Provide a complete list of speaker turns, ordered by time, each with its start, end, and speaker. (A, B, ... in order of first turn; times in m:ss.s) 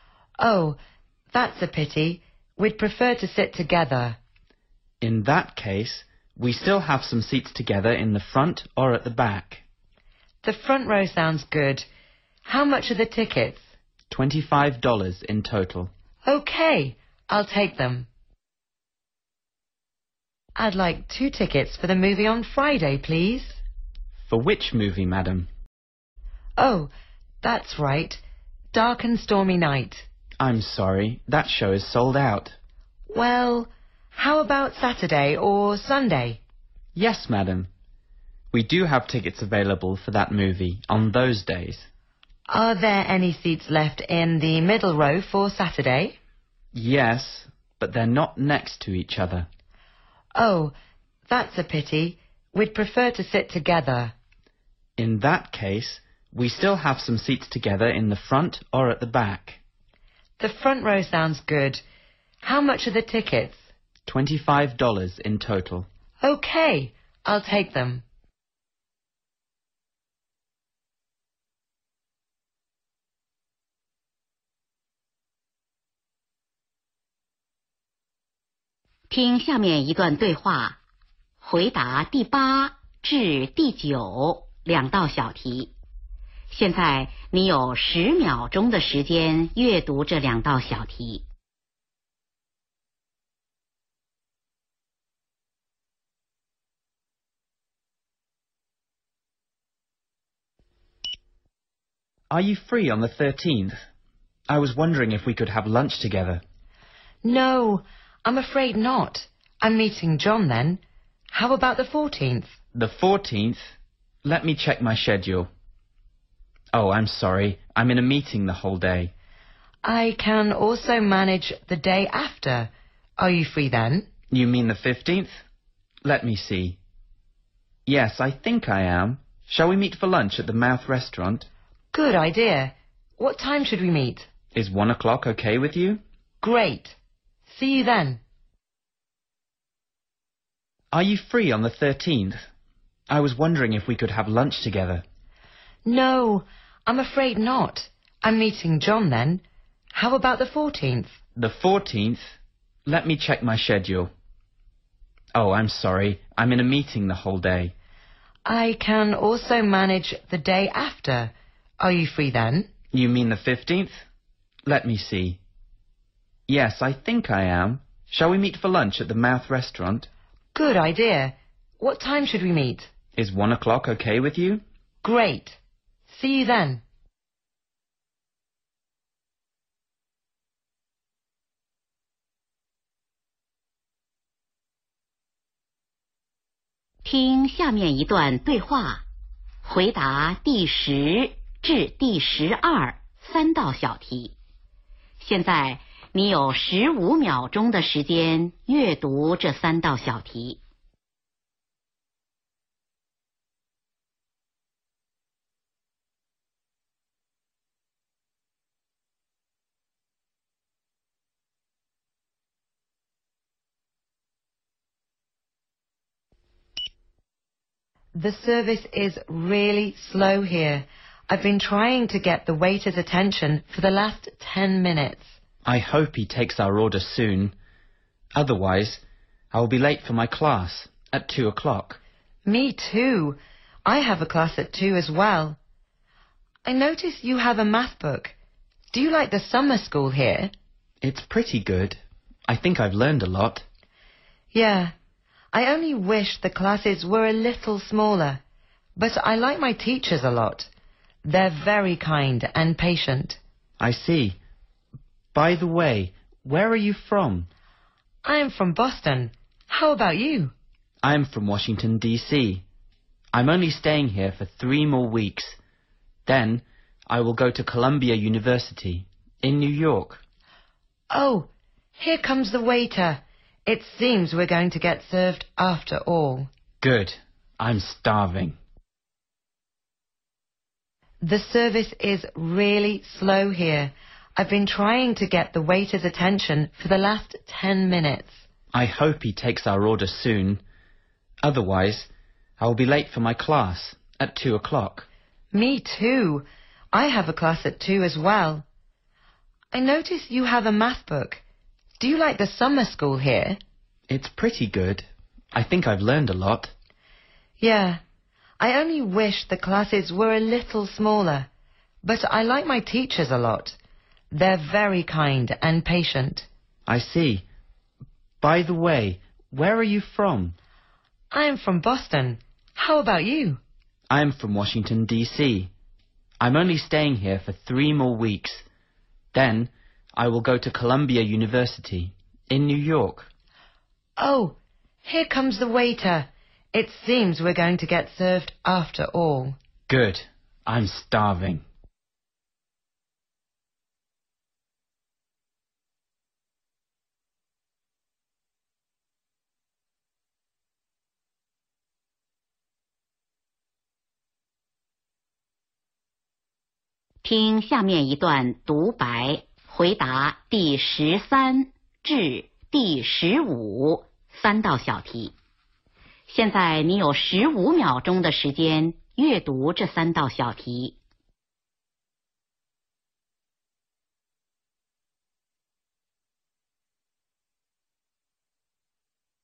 0:00.4-0:00.8 A
0:01.3-0:04.2 A
0:05.0-0:09.6 B
0:10.4-0:11.8 A
0:12.4-0:13.6 A
0:14.1-0:15.9 B
0:16.2-0:18.1 A
0:20.6-0:23.6 A
0:24.3-0:25.5 B
0:26.6-0:26.9 A
0:27.4-0:28.2 A
0:28.7-0:30.0 A
0:30.4-0:32.6 B
0:33.1-0:36.4 A
0:37.0-0:37.7 B
0:38.5-0:41.9 B
0:42.5-0:46.2 A
0:46.7-0:49.5 B
0:50.4-0:50.7 A
0:51.3-0:54.1 A
0:55.0-0:59.6 B
1:00.4-1:01.8 A
1:02.4-1:03.6 A
1:04.1-1:05.9 B
1:06.2-1:08.0 A
1:19.1-1:20.8 C
1:21.4-1:25.7 C
1:26.5-1:31.2 C
1:42.3-1:43.7 B
1:44.5-1:46.4 B
1:47.2-1:50.8 A
1:51.3-1:52.5 A
1:52.7-1:53.7 B
1:54.2-1:55.5 B
1:56.7-1:59.1 B
1:59.8-2:04.1 A
2:04.3-2:05.3 B
2:06.0-2:06.8 B
2:07.8-2:11.5 B
2:11.9-2:14.3 A
2:14.5-2:16.0 B
2:16.4-2:17.0 A
2:17.5-2:18.2 A
2:20.9-2:22.4 B
2:23.1-2:25.0 B
2:25.8-2:29.4 A
2:29.9-2:31.1 A
2:31.4-2:32.3 B
2:32.8-2:34.1 B
2:35.3-2:37.7 B
2:38.4-2:42.7 A
2:42.9-2:43.9 B
2:44.7-2:45.4 B
2:46.5-2:50.1 B
2:50.5-2:52.9 A
2:53.2-2:54.6 B
2:55.0-2:55.6 A
2:56.1-2:56.8 A
3:07.0-3:09.0 C
3:09.6-3:14.3 C
3:15.2-3:20.6 C
3:38.1-3:45.3 A
3:45.6-3:47.5 B
3:48.4-3:52.0 B
3:52.4-3:55.6 A
3:56.6-3:58.3 A
3:58.9-4:00.5 A
4:01.0-4:03.6 B
4:04.5-4:04.9 A
4:05.5-4:08.4 A
4:09.0-4:10.7 A
4:11.2-4:13.4 A
4:13.8-4:14.4 B
4:15.3-4:17.5 B
4:18.2-4:20.5 A
4:21.0-4:22.6 B
4:23.3-4:25.6 B
4:26.2-4:30.2 B
4:31.1-4:36.5 A
4:36.8-4:38.6 B
4:41.2-4:48.4 A
4:48.7-4:50.6 B
4:51.4-4:55.1 B
4:55.5-4:58.6 A
4:59.7-5:01.4 A
5:02.0-5:03.6 A
5:04.1-5:06.7 B
5:07.6-5:08.0 A
5:08.6-5:11.5 A
5:12.0-5:13.8 A
5:14.3-5:16.5 A
5:16.9-5:17.4 B
5:18.4-5:20.6 B
5:21.3-5:23.6 A
5:24.1-5:25.7 B
5:26.4-5:28.6 B
5:29.3-5:33.3 B
5:34.2-5:39.6 A
5:39.9-5:41.6 B
5:57.2-6:05.3 C
6:06.3-6:11.0 C